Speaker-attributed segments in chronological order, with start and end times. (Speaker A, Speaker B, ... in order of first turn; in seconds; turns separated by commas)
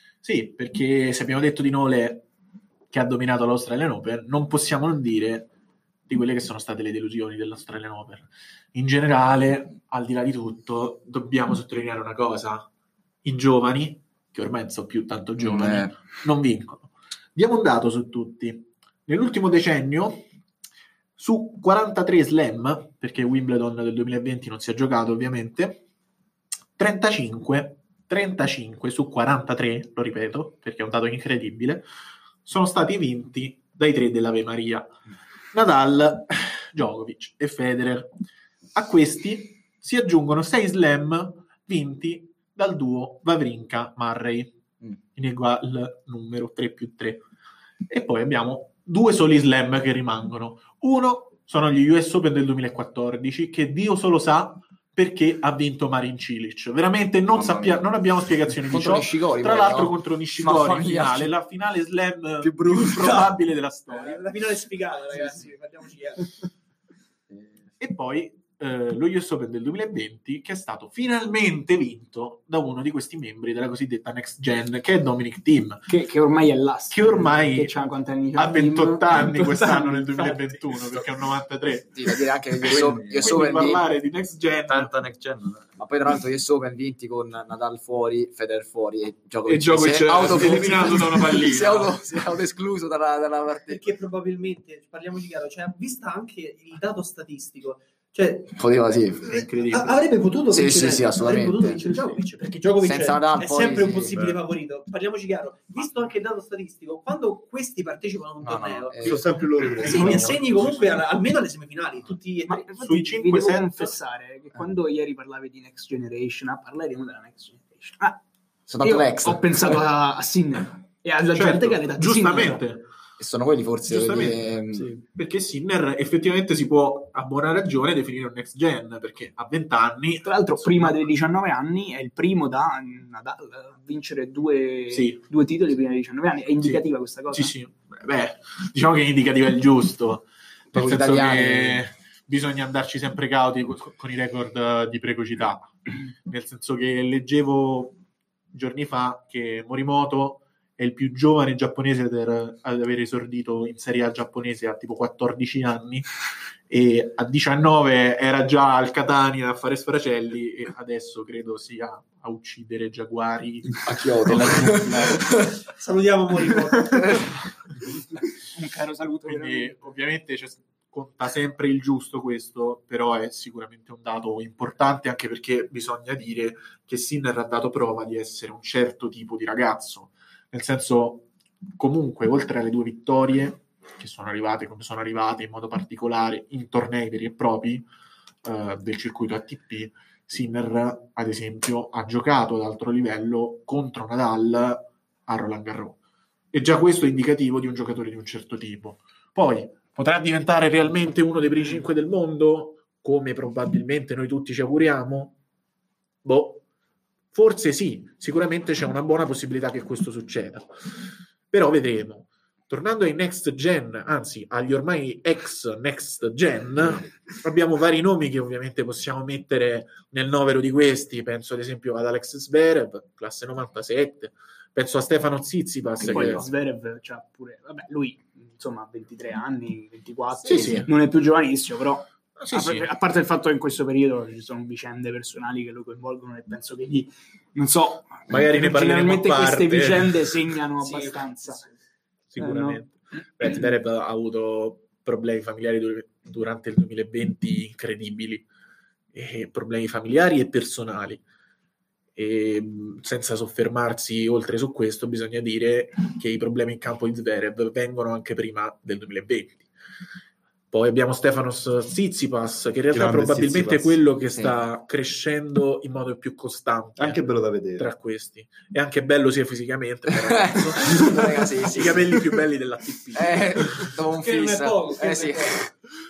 Speaker A: 0.2-2.3, Speaker A: 2.9-5.5, Speaker A: 6.1-12.7, Speaker A: 13.2-20.3, Speaker B: 15.4-16.1, Speaker A: 21.2-25.8, Speaker A: 26.8-31.9, Speaker A: 32.5-34.9, Speaker A: 35.5-38.1, Speaker A: 38.7-44.5, Speaker A: 45.1-47.3, Speaker A: 47.9-64.2, Speaker B: 57.3-57.9, Speaker B: 58.5-61.3, Speaker B: 62.4-63.4, Speaker C: 63.9-66.4, Speaker B: 67.3-67.7, Speaker A: 67.8-75.9, Speaker D: 75.9-80.7, Speaker A: 76.9-84.9, Speaker B: 81.9-83.9, Speaker E: 82.7-83.5, Speaker E: 84.7-85.7, Speaker B: 85.8-93.8, Speaker A: 89.5-92.0, Speaker C: 93.7-98.6, Speaker B: 98.5-99.4, Speaker C: 99.2-109.2, Speaker A: 99.3-99.9, Speaker B: 100.5-101.8, Speaker B: 102.8-104.1, Speaker E: 104.1-104.4, Speaker B: 108.4-109.3, Speaker E: 109.0-110.5, Speaker B: 109.8-110.3, Speaker C: 109.8-112.7, Speaker D: 112.5-118.2, Speaker A: 112.8-114.0, Speaker B: 118.7-119.8, Speaker D: 118.8-122.6, Speaker A: 121.3-122.9, Speaker B: 123.2-124.9, Speaker A: 123.9-131.1, Speaker D: 130.2-137.5, Speaker A: 134.9-135.3, Speaker A: 136.6-148.0, Speaker B: 140.7-141.8, Speaker A: 148.5-156.1, Speaker A: 156.7-164.8, Speaker B: 163.8-165.6, Speaker C: 164.8-167.4, Speaker D: 167.8-170.0, Speaker A: 169.2-187.9, Speaker A: 188.4-196.0, Speaker A: 196.5-205.3, Speaker A: 206.2-206.6, Speaker A: 207.3-210.7, Speaker A: 211.5-226.4, Speaker B: 226.0-226.4, Speaker D: 226.0-241.7, Speaker A: 230.4-230.9, Speaker A: 232.4-232.9, Speaker A: 238.3-240.6, Speaker C: 240.8-241.6, Speaker A: 242.3-248.5, Speaker D: 242.3-242.9, Speaker A: 249.1-251.2, Speaker A: 252.2-259.7, Speaker A: 260.7-267.2, Speaker E: 262.9-264.0, Speaker B: 264.3-264.6, Speaker E: 267.0-267.9, Speaker A: 267.8-274.0, Speaker B: 270.1-272.4, Speaker B: 273.1-275.7, Speaker C: 274.0-275.7